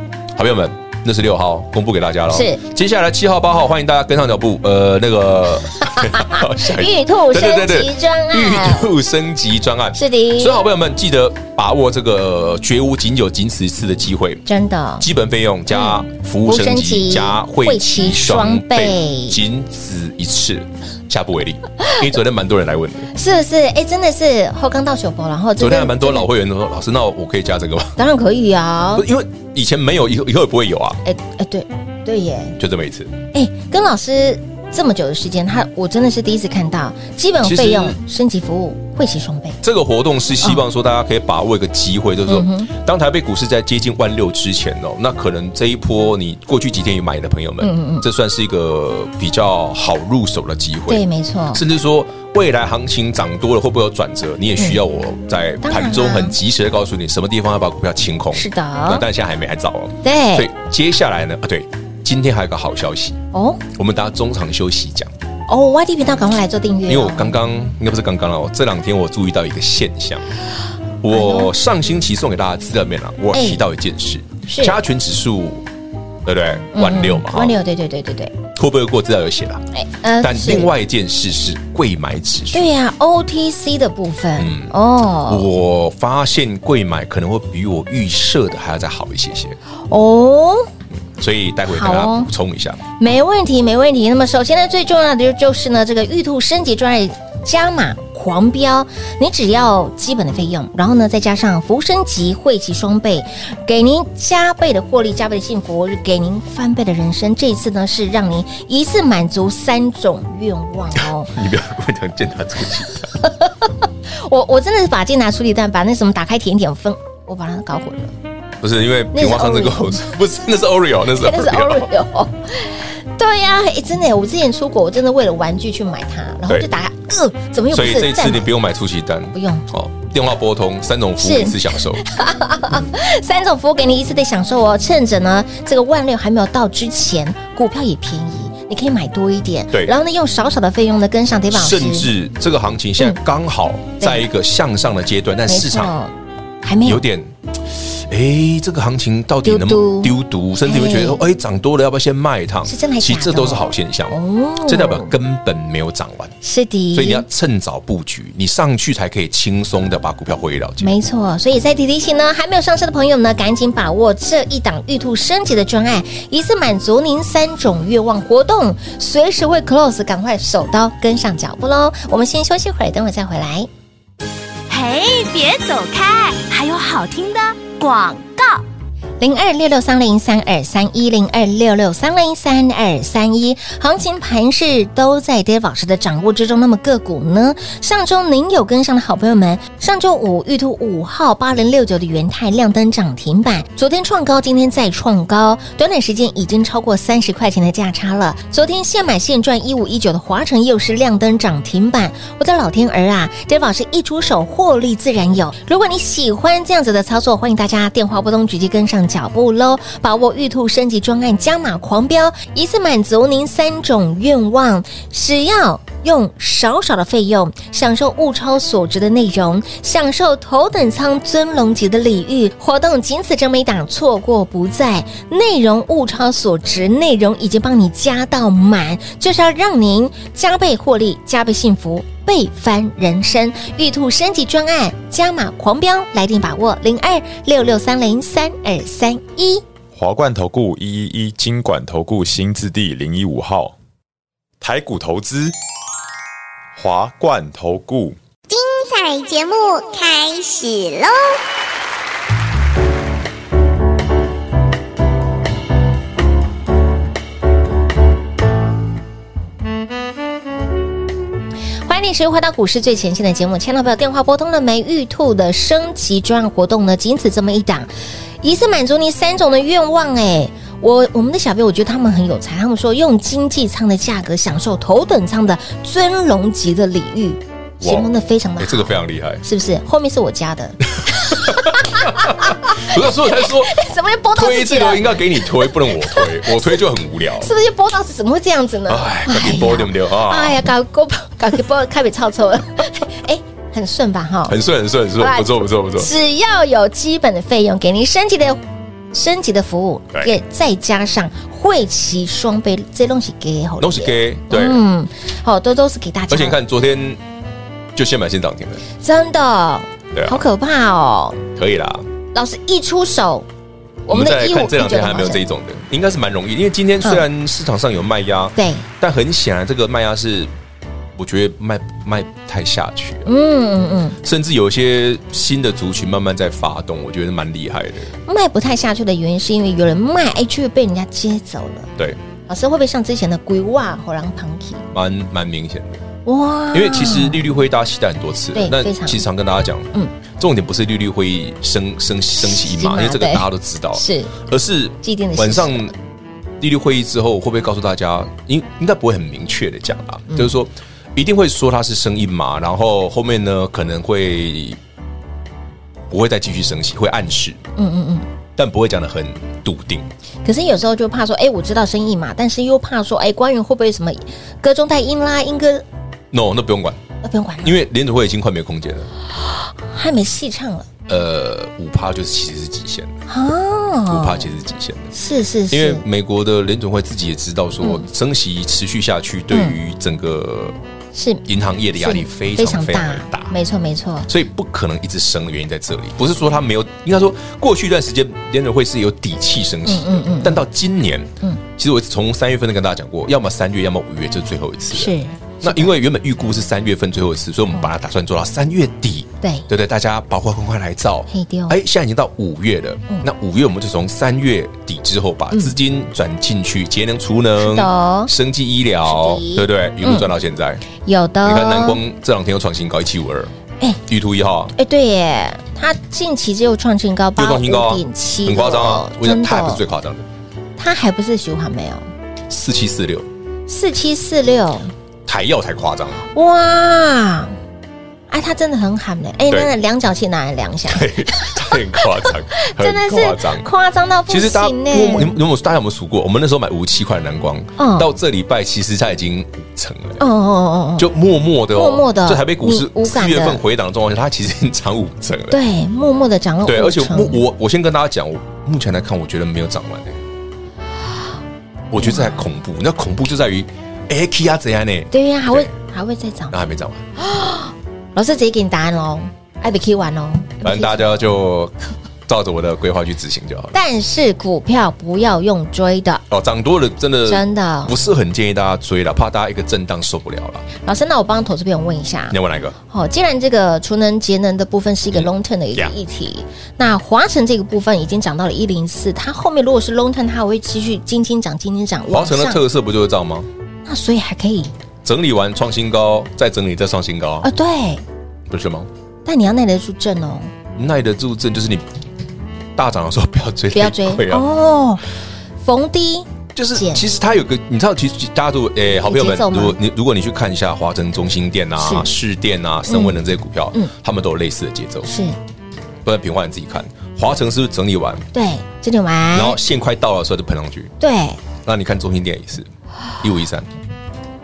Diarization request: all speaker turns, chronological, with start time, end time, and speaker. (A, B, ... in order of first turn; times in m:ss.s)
0:00.3-0:14.4 A
0:02.3-0:02.6 B
0:05.8-0:08.9 B
0:09.9-0:10.6 B
0:14.4-0:15.1 B
0:15.0-0:23.1 A
0:15.7-0:19.4 B
0:23.1-0:26.3 B
0:25.6-0:28.0 A
0:28.0-0:29.0 B
0:28.9-0:31.0 A
0:31.0-0:32.6 B
0:32.6-0:33.1 A
0:33.3-0:39.6 B
0:37.4-0:38.0 A
0:39.6-1:05.1 A
0:42.3-0:42.7 B
0:47.6-0:48.0 B
0:50.9-0:51.6 B
0:55.6-0:56.4 B
0:58.3-0:59.0 B
1:00.0-1:00.5 B
1:03.3-1:03.6 B
1:05.5-1:07.3 B
1:06.9-1:10.2 A
1:11.0-1:15.6 A
1:11.1-1:11.5 B
1:13.3-1:13.6 B
1:14.5-1:14.8 B
1:16.2-1:17.6 A
1:16.7-1:18.3 B
1:18.5-1:19.6 A
1:19.7-1:20.7 B
1:20.2-1:22.7 A
1:22.5-1:25.5 B
1:24.4-1:29.6 A
1:29.9-1:30.7 B
1:31.2-1:32.8 A
1:31.7-1:32.3 B
1:33.0-1:51.3 B
1:51.0-1:53.1 A
1:53.2-1:58.1 B
1:58.6-2:01.9 A
1:59.1-2:00.0 B
2:01.2-2:08.5 B
2:07.7-2:12.0 A
2:09.3-2:09.7 B
2:11.2-2:22.1 B
2:21.5-2:25.9 A
2:24.0-2:24.2 B
2:25.5-2:27.0 B
2:26.8-2:36.3 A
2:29.4-2:31.2 B
2:32.6-2:35.1 B
2:36.4-2:37.2 B
2:36.9-2:41.0 A
2:40.8-2:53.7 B
2:54.7-2:58.6 C
2:59.2-3:59.6 B
3:59.9-4:03.7 D
4:04.6-4:05.5 D
4:06.8-4:08.2 D
4:08.5-4:11.4 E
4:21.8-4:27.9 B
4:28.4-4:46.7 B
4:37.8-4:38.1 A
4:38.6-4:39.4 A
4:41.0-4:43.8 A
4:44.3-4:47.5 A
4:47.4-4:54.6 B
4:48.9-4:50.6 A
4:54.5-4:56.1 A
4:55.2-4:58.6 B
4:59.1-5:06.6 B
5:03.8-5:04.8 A
5:06.3-5:07.2 A
5:07.9-5:08.8 A
5:09.0-5:11.4 B
5:10.1-5:10.4 A
5:11.5-5:12.1 A
5:12.3-5:13.5 B
5:14.1-5:15.4 B
5:14.1-5:20.5 A
5:18.6-5:18.8 B
5:21.2-5:23.3 A
5:23.2-5:24.2 B
5:24.2-5:28.1 A
5:28.2-5:31.9 B
5:32.5-5:34.9 B
5:34.9-5:36.0 A
5:36.2-5:37.4 B
5:36.7-5:45.9 A
5:38.5-5:39.2 B
5:42.4-5:44.3 B
5:45.0-5:45.9 B
5:46.6-5:54.8 A
5:56.1-5:57.6 A
5:57.8-5:58.2 B
5:58.6-6:00.1 A
6:00.4-6:05.8 B
6:06.3-6:07.0 A
6:07.2-6:07.8 B
6:07.6-6:09.1 A
6:09.8-6:10.9 B
6:11.1-6:13.1 A
6:13.3-6:14.5 B
6:14.1-6:15.1 A
6:15.1-6:16.0 B
6:15.7-6:20.8 A
6:19.5-6:19.8 B
6:21.1-6:21.4 B
6:21.4-6:23.5 A
6:21.9-6:24.3 B
6:24.3-6:50.8 A
6:29.8-6:30.6 B
6:34.9-6:35.9 B
6:39.4-6:39.7 B
6:41.3-6:41.8 B
6:47.6-6:48.3 B
6:49.0-6:50.3 B
6:50.9-6:52.0 B
6:51.4-6:53.5 A
6:54.1-6:54.7 A
6:54.7-6:59.8 B
6:57.4-7:00.2 A
7:00.8-7:02.1 B
7:02.5-7:03.3 A
7:03.7-7:04.9 B
7:05.2-7:06.2 A
7:06.3-7:07.5 B
7:08.3-7:15.4 B
7:10.9-7:13.7 A
7:14.3-7:20.2 A
7:17.8-7:18.1 B
7:20.2-7:21.1 B
7:21.0-7:25.6 A
7:21.7-7:23.6 B
7:25.5-7:27.4 B
7:26.6-7:30.2 A
7:31.9-7:35.7 A
7:32.0-7:32.4 B
7:35.1-7:36.5 B
7:36.5-7:37.0 A
7:37.2-7:41.1 B
7:40.6-7:41.7 A
7:42.3-7:43.7 A
7:43.7-7:46.2 B
7:46.3-7:50.6 A
7:47.2-7:47.9 B
7:50.8-7:52.4 B
7:52.3-7:52.8 A
7:52.9-8:02.6 B
7:55.1-7:55.9 A
8:02.1-8:03.5 A
8:03.8-8:04.7 B
8:05.0-8:07.5 A
8:07.4-8:08.0 B
8:08.5-8:08.9 A
8:09.2-8:10.5 B
8:10.8-8:11.8 A
8:12.8-8:14.5 A
8:13.7-8:15.0 B
8:15.6-8:17.0 B
8:16.6-8:25.1 A
8:19.0-8:19.8 B
8:21.8-8:22.1 B
8:22.9-8:23.1 B
8:25.0-8:25.4 B
8:26.0-8:28.2 A
8:28.3-8:29.6 B
8:29.3-8:30.9 A
8:31.0-8:31.4 B
8:31.6-8:32.7 A
8:33.2-8:33.7 A